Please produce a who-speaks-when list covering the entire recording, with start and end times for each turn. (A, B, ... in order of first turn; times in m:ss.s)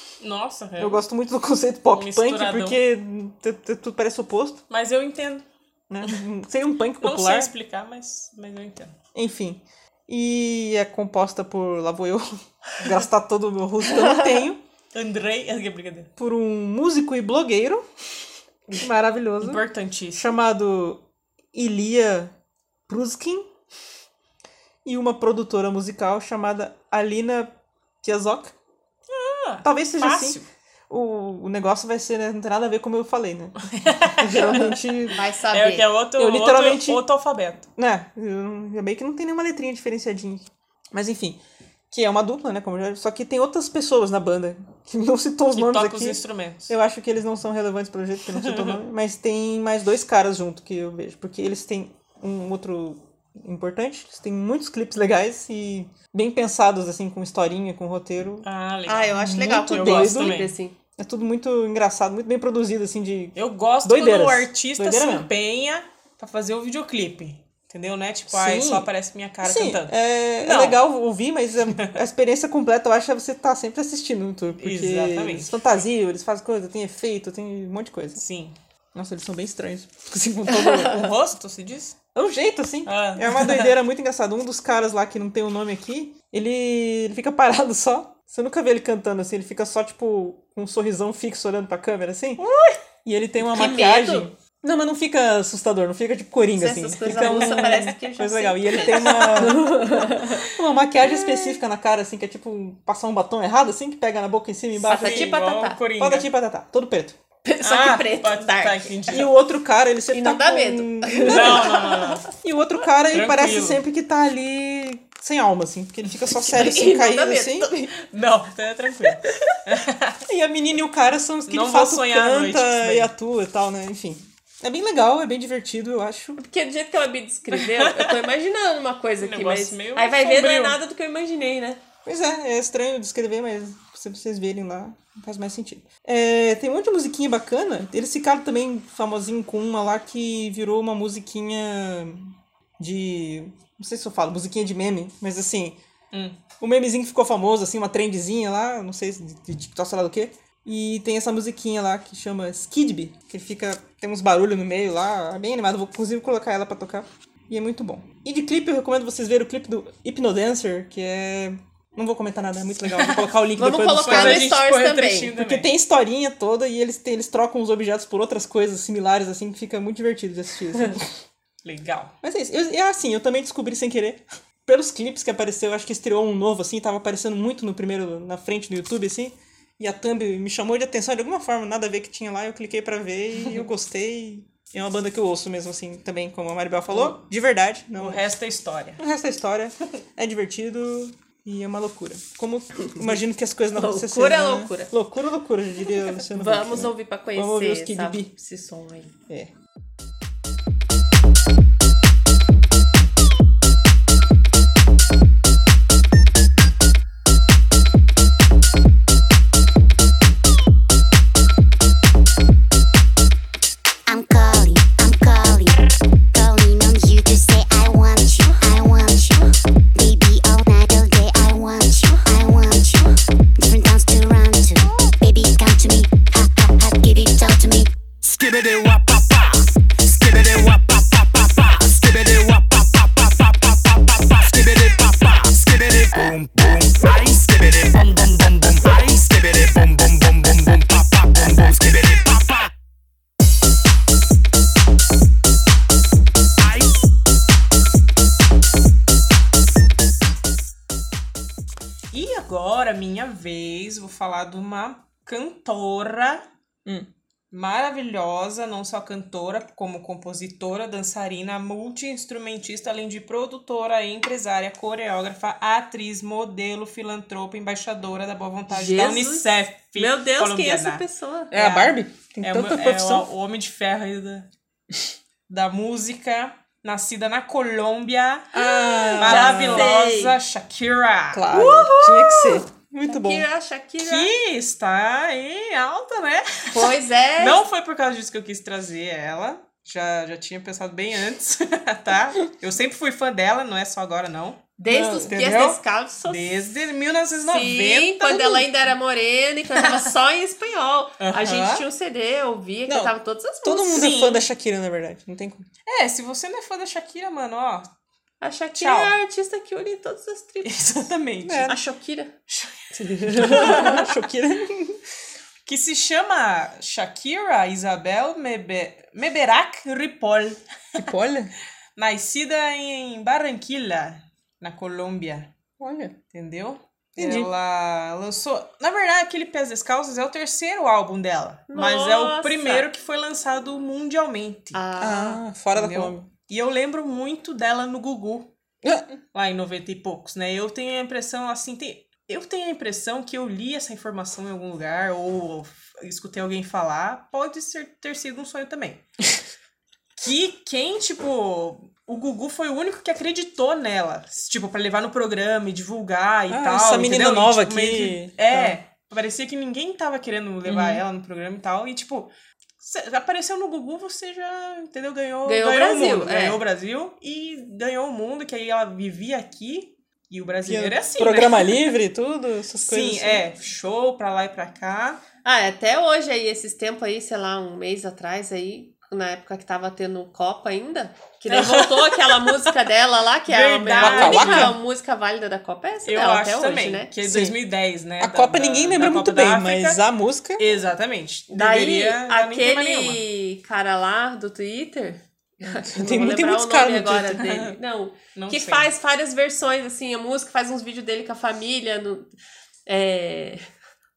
0:00.2-0:01.0 A
0:00.8-0:04.6 B
0:01.9-0:02.8 A
0:04.7-0:05.4 A
0:05.9-0:07.5 B
0:07.0-0:08.9 A
0:09.1-0:14.6 B
0:14.9-0:16.1 A
0:16.2-0:17.8 B
0:18.8-0:19.6 B
0:19.4-0:20.3 A
0:20.1-0:21.0 B
0:21.5-0:22.3 B
0:22.9-0:23.5 B
0:24.8-0:28.5 B
0:29.1-0:30.4 A
0:29.6-0:35.2 B
0:33.7-0:34.6 A
0:34.3-0:35.9 C
0:35.5-0:37.7 A
0:36.2-0:37.0 B
0:37.8-0:41.4 B
0:41.9-0:58.5 B
0:45.5-0:46.7 A
0:48.3-0:48.8 A
0:58.4-1:00.5 A
0:58.9-1:00.7 C
0:59.2-1:00.4 B
1:01.0-1:05.3 B
1:03.4-1:10.8 A
1:08.3-1:08.9 B
1:09.4-1:18.2 B
1:14.6-1:15.5 A
1:18.2-1:18.5 A
1:18.9-1:21.1 B
1:20.7-1:22.0 A
1:22.1-1:32.4 B
1:22.8-1:23.7 A
1:32.4-1:32.8 A
1:33.0-1:47.2 B
1:33.5-1:34.3 C
1:36.6-1:40.4 C
1:37.2-1:37.9 A
1:38.9-1:39.6 A
1:44.8-1:45.8 C
1:44.9-1:46.3 A
1:47.4-1:48.9 C
1:47.6-1:49.3 A
1:49.1-1:57.9 B
1:50.1-1:52.2 C
1:51.2-1:52.2 A
1:53.1-1:53.8 A
1:56.4-1:57.9 C
1:58.0-2:00.2 A
2:00.3-2:06.4 B
2:01.5-2:03.1 A
2:06.4-2:11.8 C
2:07.5-2:08.2 A
2:09.2-2:10.8 A
2:12.0-2:25.8 B
2:26.1-2:26.4 A
2:26.6-2:44.6 B
2:43.6-2:45.3 C
2:44.0-2:45.7 A
2:45.3-2:51.1 B
2:51.6-2:52.1 A
2:52.2-3:08.3 B
3:08.0-3:09.0 A
3:09.0-3:18.3 B
3:13.8-3:14.9 C
3:16.3-3:19.1 C
3:34.1-3:47.9 D
3:48.2-3:49.6 E
3:50.2-3:53.0 E
3:54.3-4:02.6 E
4:12.1-4:16.4 A
4:17.5-4:34.5 A
4:28.7-4:31.5 C
4:31.5-4:33.3 B
4:35.5-4:38.5 A
4:38.5-4:39.9 B
4:39.0-4:40.4 C
4:39.2-4:41.6 A
4:41.3-4:43.4 B
4:41.5-4:44.3 C
4:44.0-4:58.7 A
4:46.7-4:47.6 C
4:54.8-4:56.5 C
4:54.9-4:55.7 B
4:57.4-5:04.1 C
5:01.2-5:01.8 A
5:02.9-5:05.7 B
5:03.9-5:04.4 A
5:05.8-5:07.9 A
5:08.4-5:11.1 C
5:08.8-5:09.1 A
5:10.6-5:11.7 A
5:11.4-5:11.8 B
5:11.6-5:12.3 C
5:12.5-5:14.0 A
5:13.0-5:13.9 C
5:13.4-5:15.0 B
5:15.6-5:20.6 A
5:20.9-5:21.5 B
5:22.0-5:25.5 A
5:25.8-5:26.2 B
5:26.3-5:34.8 A
5:27.2-5:27.5 B
5:31.7-5:32.9 C
5:34.7-5:35.4 C
5:35.0-5:36.3 B
5:35.7-5:38.5 A
5:38.8-5:39.2 B
5:39.3-5:49.0 A
5:50.2-6:11.9 A
5:56.5-5:58.8 B
6:00.6-6:01.0 B
6:05.4-6:06.6 C
6:10.6-6:13.4 B
6:12.8-6:15.2 A
6:15.4-6:27.1 C
6:21.5-6:22.7 A
6:23.4-6:24.8 A
6:24.0-6:24.8 B
6:26.0-6:30.0 A
6:27.2-6:27.6 B
6:28.2-6:30.7 B
6:30.6-6:33.2 A
6:31.5-6:42.3 C
6:35.7-6:37.5 B
6:37.4-6:37.7 A
6:38.3-6:38.9 A
6:42.8-6:43.6 C